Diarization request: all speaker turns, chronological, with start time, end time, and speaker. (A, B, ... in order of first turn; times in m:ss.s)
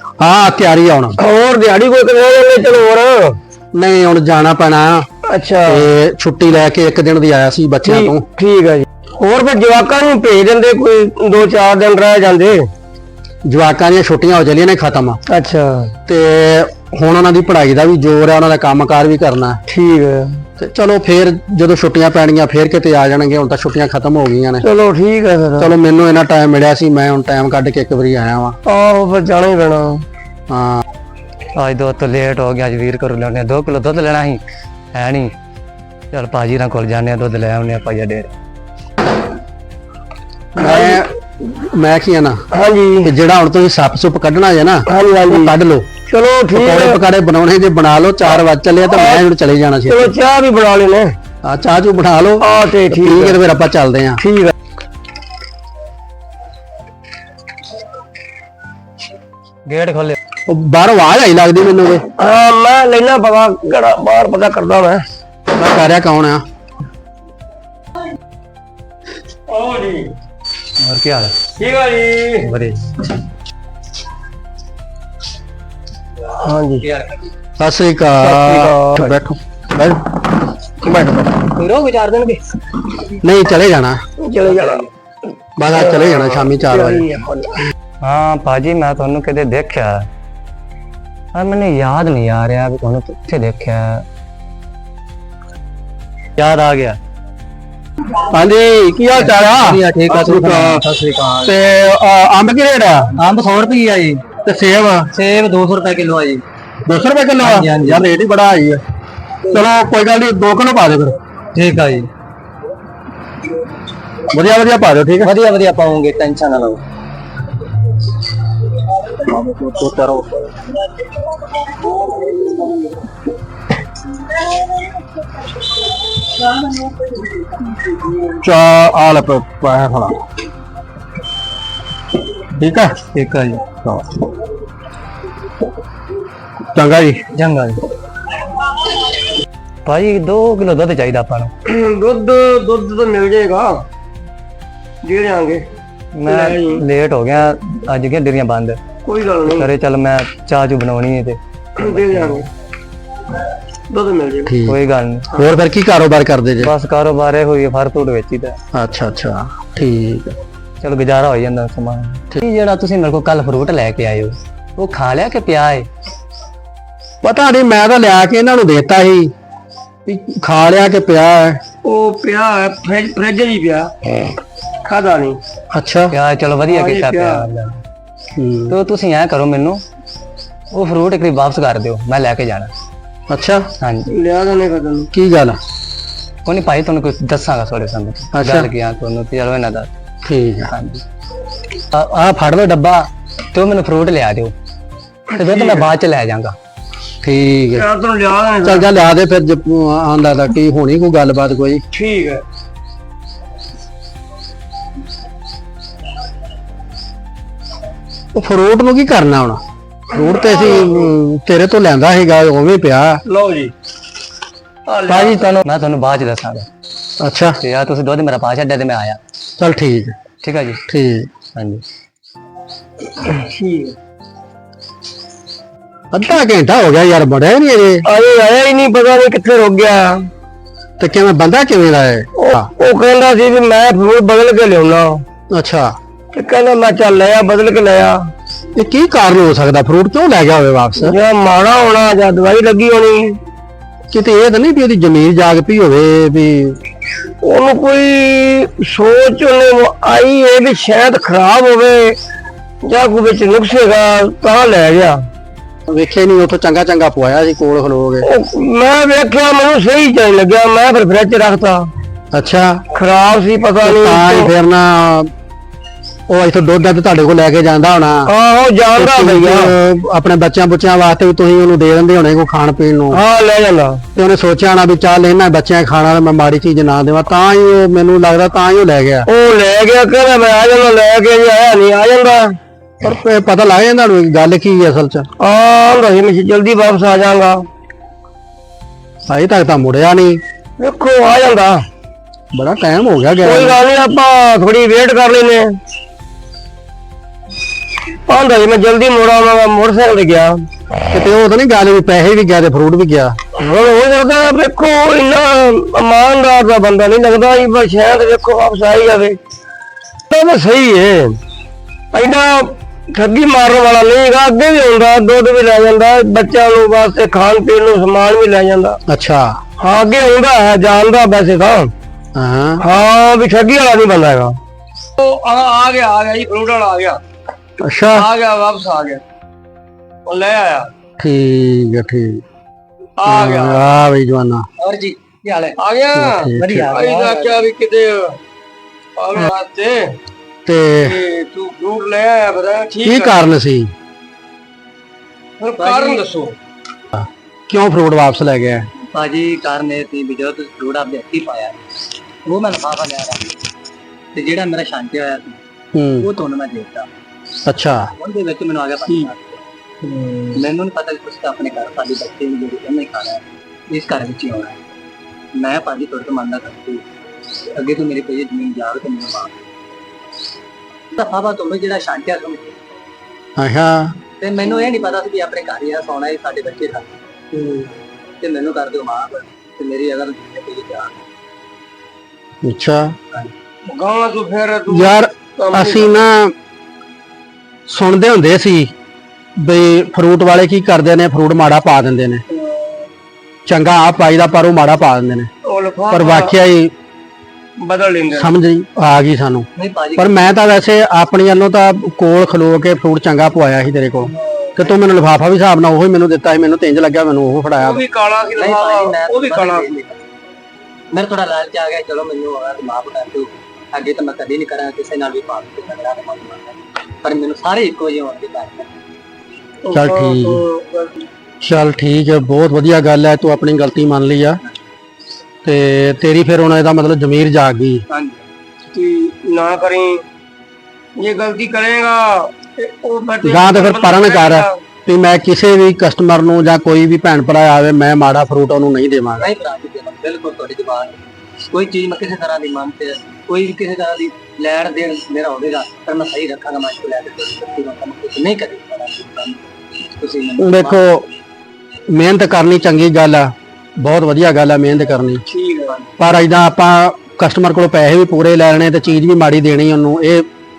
0:00.2-0:01.2 A
0:01.2-0:03.3 B
0:03.7-0:05.0 A
0:05.3-0:05.9 B
0:05.7-0:08.2 A
0:07.8-0:12.7 B
0:13.4-0:15.2 A
0:15.3-0:15.9 B
0:16.1-0:19.6 A
0:19.7-0:20.4 B
0:20.6-0:24.6 A
0:24.6-0:25.7 B
0:25.6-0:28.6 A
0:28.6-0:30.0 B
0:30.5-0:30.8 A
0:31.5-0:34.4 C
0:34.9-0:35.3 C
0:36.1-0:38.3 C
0:40.5-0:42.4 A
0:40.6-0:41.0 B
0:42.5-0:43.1 B
0:43.0-0:45.8 A
0:44.9-0:45.5 B
0:46.1-0:47.0 B
0:46.5-0:50.1 A
0:48.8-0:49.2 B
0:49.9-0:51.1 B
0:51.4-0:54.2 A
0:52.4-0:53.4 B
0:54.2-0:54.5 B
0:59.6-1:00.2 C
1:00.5-1:02.0 A
1:02.2-1:05.0 B
1:05.5-1:06.4 A
1:09.5-1:10.1 B
1:10.8-1:11.3 C
1:11.6-1:12.5 B
1:12.4-1:13.0 C
1:16.2-1:16.8 B
1:16.8-1:17.3 C
1:17.6-1:20.2 A
1:18.2-1:19.2 B
1:20.8-1:21.5 A
1:21.5-1:22.4 C
1:23.2-1:24.0 A
1:24.2-1:24.8 B
1:24.4-1:24.9 C
1:25.6-1:27.0 A
1:25.7-1:27.5 B
1:28.0-1:30.1 C
1:31.3-1:34.0 C
1:36.4-1:37.0 C
1:38.2-1:40.8 A
1:39.1-1:41.6 C
1:41.4-1:43.1 A
1:43.2-1:44.2 C
1:44.4-1:45.1 A
1:45.1-1:46.4 C
1:46.8-1:48.8 A
1:47.4-1:48.0 C
1:49.5-1:51.2 A
1:51.5-1:52.1 C
1:54.3-1:55.3 A
1:55.2-1:56.8 C
1:59.2-2:00.4 A
2:08.3-2:10.2 A
2:12.6-2:12.9 A
2:13.1-2:13.6 C
2:13.8-2:14.2 A
2:16.7-2:17.2 A
2:17.3-2:17.8 C
2:19.8-2:21.5 C
2:21.6-2:23.8 B
2:25.0-2:25.6 B
2:26.1-2:28.8 C
2:26.2-2:26.8 B
2:29.0-2:29.7 B
2:29.4-2:32.4 C
2:31.8-2:32.5 B
2:33.9-2:34.6 B
2:34.4-2:34.8 A
2:34.6-2:35.3 C
2:35.3-2:36.7 A
2:36.6-2:38.6 C
2:38.7-2:40.4 A
2:40.8-2:45.9 C
2:47.2-2:49.3 A
2:50.0-2:51.6 A
2:51.8-2:54.1 B
2:54.8-2:55.4 B
2:55.7-2:56.2 A
2:56.1-2:57.8 C
2:56.6-2:57.5 B
2:58.3-2:58.7 A
2:58.7-2:59.8 C
3:00.7-3:02.7 C
3:03.3-3:03.7 A
3:03.8-3:04.1 C
3:04.1-3:05.1 B
3:05.1-3:05.6 A
3:06.4-3:09.9 C
3:08.3-3:08.7 A
3:10.2-3:10.7 A
3:10.7-3:11.0 C
3:11.9-3:13.0 A
3:13.5-3:14.5 C
3:15.3-3:15.9 B
3:15.4-3:16.6 C
3:17.2-3:17.8 A
3:17.8-3:18.9 B
3:18.6-3:21.8 A
3:21.9-3:22.4 B
3:28.3-3:33.2 A
3:30.4-3:31.1 B
3:33.2-3:33.7 B
3:34.8-3:35.5 B
3:35.1-3:36.7 C
3:37.2-3:37.6 A
3:37.6-3:39.2 C
3:39.6-3:40.1 A
3:40.4-3:40.8 C
3:40.9-3:41.3 A
3:41.5-3:41.8 C
3:43.3-3:43.9 B
3:46.1-3:48.0 A
3:48.0-3:50.3 B
3:51.0-3:52.7 A
3:52.4-3:55.2 B
3:55.5-3:55.9 A
3:56.3-3:58.2 B
3:58.8-4:01.2 A
4:01.0-4:03.4 B
4:04.1-4:06.8 A
4:07.4-4:12.2 B
4:12.8-4:15.2 B
4:15.9-4:18.3 A
4:18.2-4:21.9 B
4:22.3-4:22.8 A
4:22.9-4:24.5 B
4:23.8-4:25.3 A
4:26.3-4:28.3 A
4:28.3-4:29.7 B
4:29.0-4:33.2 A
4:33.1-4:34.0 B
4:34.2-4:39.3 A
4:39.3-4:42.6 B
4:43.0-4:45.3 A
4:45.4-4:47.7 B
4:49.3-4:50.4 A
4:50.8-4:51.8 B
4:52.5-4:53.8 A
4:53.4-4:55.7 B
4:58.3-5:00.6 B
5:01.1-5:03.4 A
5:03.5-5:09.4 B
5:10.3-5:11.4 B
5:12.1-5:19.0 B
5:19.1-5:19.6 A
5:19.8-5:21.9 B
5:22.3-5:22.8 A
5:22.8-5:24.6 B
5:25.2-5:27.2 B
5:27.8-5:28.3 A
5:28.1-5:29.2 B
5:30.2-5:30.9 B
5:31.2-5:32.4 A
5:33.2-5:33.9 B
5:33.2-5:34.6 A
5:34.8-5:35.8 C
5:35.8-5:38.4 B
5:36.1-5:36.9 A
5:36.5-5:37.6 C
5:39.2-5:40.1 B
5:40.6-5:41.2 A
5:41.0-5:43.4 B
5:43.0-5:43.9 A
5:45.6-5:46.5 B
5:45.8-5:46.3 C
5:47.1-5:48.9 A
5:49.1-5:51.8 C
5:52.4-5:53.6 C
5:54.3-5:55.6 C
5:55.9-5:56.3 A
5:56.2-5:57.1 C
5:57.6-5:58.0 A
5:58.2-5:59.6 C
6:00.0-6:00.6 B
6:00.5-6:04.8 C
6:05.5-6:07.0 C
6:07.7-6:09.5 C
6:11.1-6:12.8 C
6:13.6-6:14.1 A
6:14.4-6:17.1 C
6:17.5-6:17.9 B
6:18.4-6:21.2 C
6:22.6-6:23.1 A
6:23.9-6:26.2 B
6:24.9-6:26.5 A
6:27.9-6:28.9 A
6:29.6-6:32.4 A
6:32.5-6:33.0 B
6:33.6-6:35.5 A
6:35.6-6:36.5 B
6:36.1-6:36.9 A
6:37.8-6:38.5 B
6:38.3-6:48.0 A
6:39.8-6:40.5 C
6:47.8-6:49.9 B
6:48.6-6:50.2 C
6:51.1-6:58.9 C
6:59.8-7:01.2 B
6:59.9-7:00.6 A
7:01.6-7:04.6 A
7:05.6-7:08.0 A
7:08.1-7:08.4 C
7:08.9-7:10.2 B
7:11.2-7:14.8 B
7:13.4-7:19.5 A
7:19.4-7:31.0 C
7:30.6-7:31.3 A
7:32.1-7:35.4 A
7:35.4-7:36.1 B
7:36.2-7:40.4 A